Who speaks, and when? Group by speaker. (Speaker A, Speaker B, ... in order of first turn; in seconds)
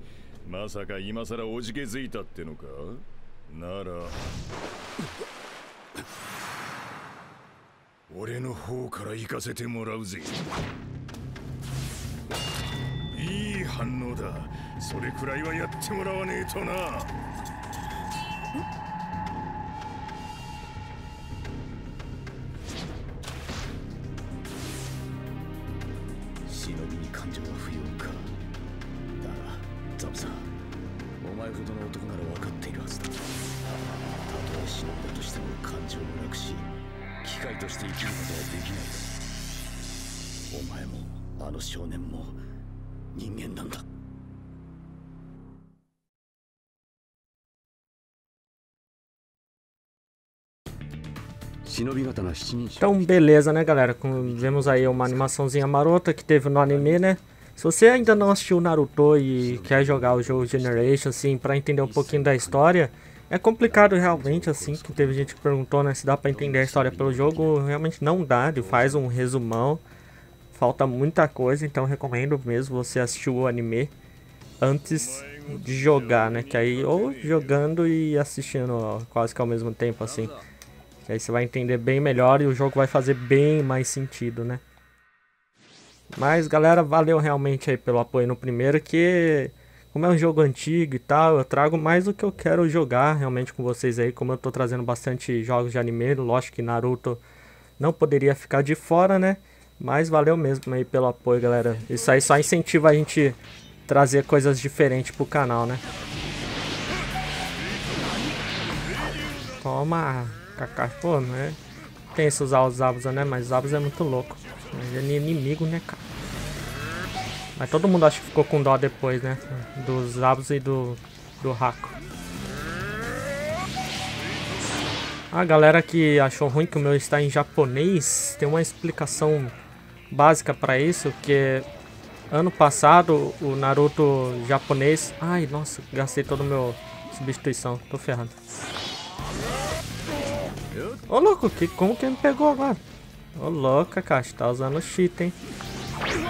Speaker A: 0.4-4.2, 8.1-10.4, 13.1-17.1, 74.8-77.6
Speaker B: 26.5-28.4, 29.1-30.5, 31.2-33.2, 34.3-36.7, 37.2-39.1, 40.5-42.4, 43.1-43.8, 51.6-53.2, 54.1-55.4, 56.7-57.0, 59.4-61.0, 61.8-62.7, 63.6-65.4, 66.3-67.6, 68.6-69.0
Speaker C: 52.8-69.8, 70.5-73.9, 74.6-80.3, 81.1-84.6, 86.1-97.2, 97.8-105.8, 109.6-111.6, 112.1-116.0, 117.6-122.0, 125.3-129.6, 130.1-131.7, 132.3-138.3, 141.1-142.8, 143.4-145.3